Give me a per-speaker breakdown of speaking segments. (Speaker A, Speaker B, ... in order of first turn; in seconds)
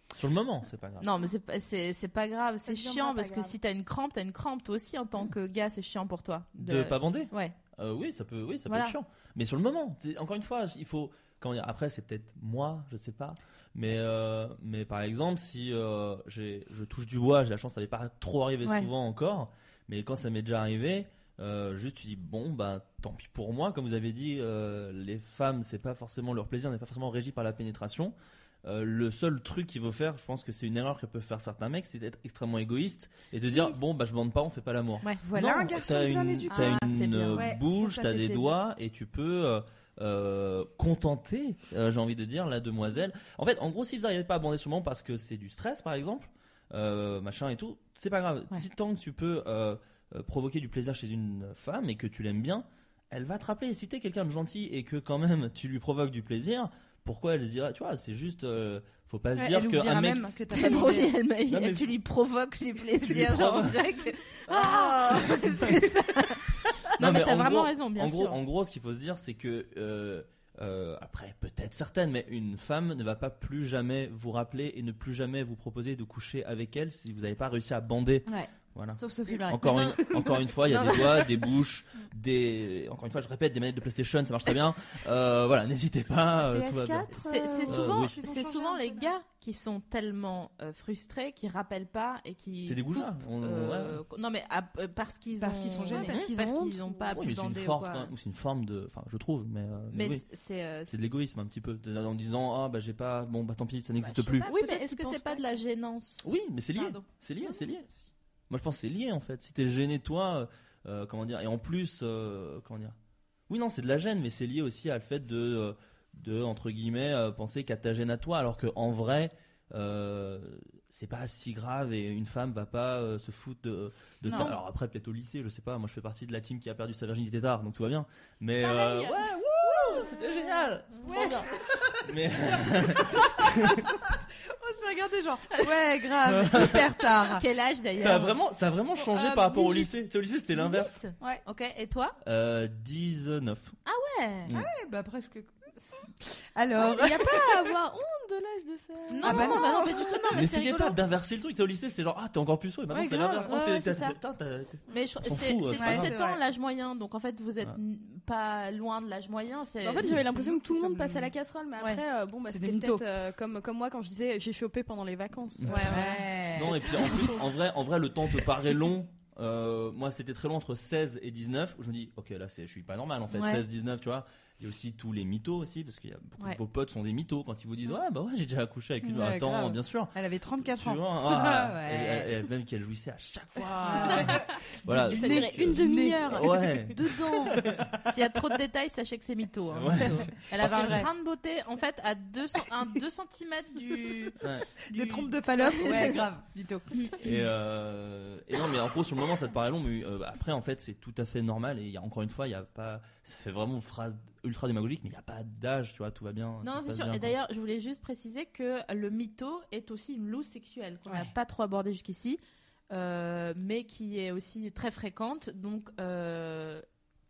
Speaker A: 0.1-1.1, 6.6-60.2, 61.5-61.9, 63.0-63.8, 65.0-65.8, 66.9-87.1, 87.7-88.1, 92.7-94.0, 97.1-100.2, 100.9-104.5, 106.2-107.9, 108.5-113.0, 113.5-133.9, 136.3-136.8, 137.9-141.0, 142.2-143.8, 150.3-156.1, 165.6-166.0, 166.5-187.9, 189.7-191.1, 194.4-194.7, 197.2-207.3
Speaker B: 1.0-7.5, 8.7-8.9, 18.6-18.9, 36.5-37.5, 60.5-68.4, 80.7-81.0, 87.2-98.1, 99.9-100.9, 104.4-107.0, 137.3-138.4, 139.0-139.9, 140.5-142.2, 143.8-144.5, 149.1-151.0, 153.3-154.2, 154.9-160.2, 165.7-166.1, 173.3-173.6, 183.8-184.4, 185.1-185.4, 188.0-194.3, 194.9-196.2, 206.6-212.4, 212.9-216.8
Speaker C: 2.6-3.5, 95.9-97.2, 104.0-105.6, 128.7-129.1, 146.8-150.4, 152.9-153.6, 159.8-166.2, 185.1-187.6
Speaker D: 33.5-33.8, 35.2-38.6, 59.3-61.1, 64.7-65.8, 78.9-80.3, 86.4-89.1, 95.4-96.3, 124.2-124.5, 131.1-132.0, 132.8-137.4, 144.5-145.5, 146.2-147.7, 149.2-149.9, 155.7-156.4, 160.1-161.3, 162.4-163.0, 165.8-167.3, 179.0-182.3, 183.8-186.7, 190.0-191.1, 194.9-197.1, 211.1-211.3